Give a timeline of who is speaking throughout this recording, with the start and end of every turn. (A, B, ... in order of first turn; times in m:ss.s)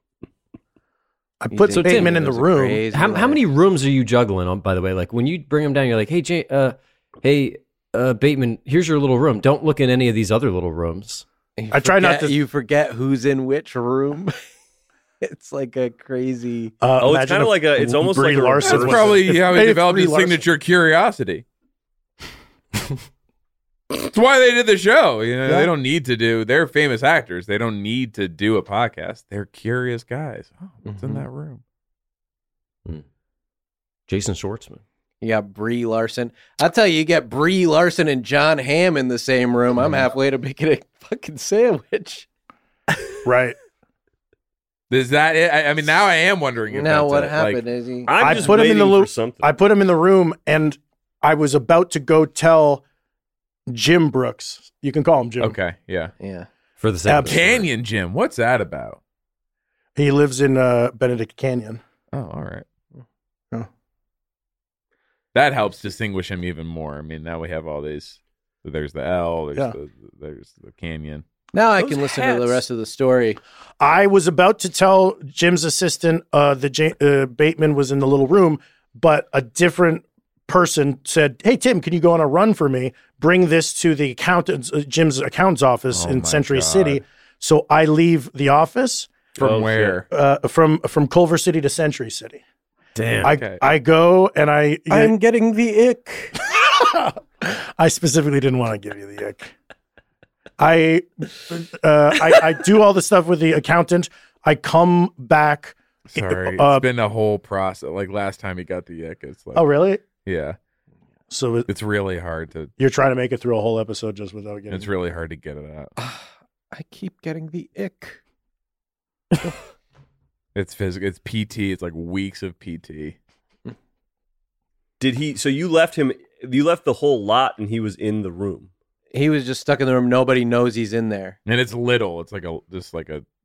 0:01.4-0:02.8 A
0:01.5-0:03.4 B
0:01.7-0:02.4 C
0:02.9-0:11.2 C
0:11.6-0:14.3 B
0:11.7-0:12.3 A
0:15.2-0:16.7 B
0:16.8-0:20.4 A
0:17.0-0:19.3 D
0:18.6-0:21.4 E
0:23.9-0:31.6 E
0:25.4-0:25.7 A
0:30.8-0:31.2 B
0:34.1-0:34.8 C
0:35.2-0:42.3 B
0:43.2-0:43.6 A
0:44.9-0:47.6 E
0:46.7-0:48.6 B
0:48.1-0:49.5 D
0:48.2-0:52.8 A
0:53.7-0:55.6 A
0:55.4-0:56.1 E
0:56.2-0:56.5 B
0:56.8-0:57.7 C
0:57.0-0:57.6 A
0:57.2-0:59.0 E
1:00.0-1:01.8 A
1:02.1-1:02.6 E
1:05.3-1:11.2 E
1:11.5-1:13.4 B
1:11.8-1:12.6 D
1:13.8-1:29.3 A
1:25.9-1:27.0 E
1:29.4-1:30.0 D
1:29.4-1:30.0 E
1:30.1-1:32.4 A
1:33.0-1:33.3 B
1:33.2-1:33.6 E
1:33.2-1:35.1 A
1:34.9-1:36.4 B
1:36.5-1:39.5 A
1:40.6-1:46.8 A
1:46.1-1:50.6 E
1:49.5-1:50.0 A
1:51.3-1:51.7 A
1:51.7-1:52.7 E
1:52.8-1:54.9 A
1:54.7-1:55.9 E
1:56.0-1:58.2 B
2:00.5-2:03.2 E
2:05.0-2:08.7 D
2:09.1-2:11.4 B
2:11.4-2:13.2 E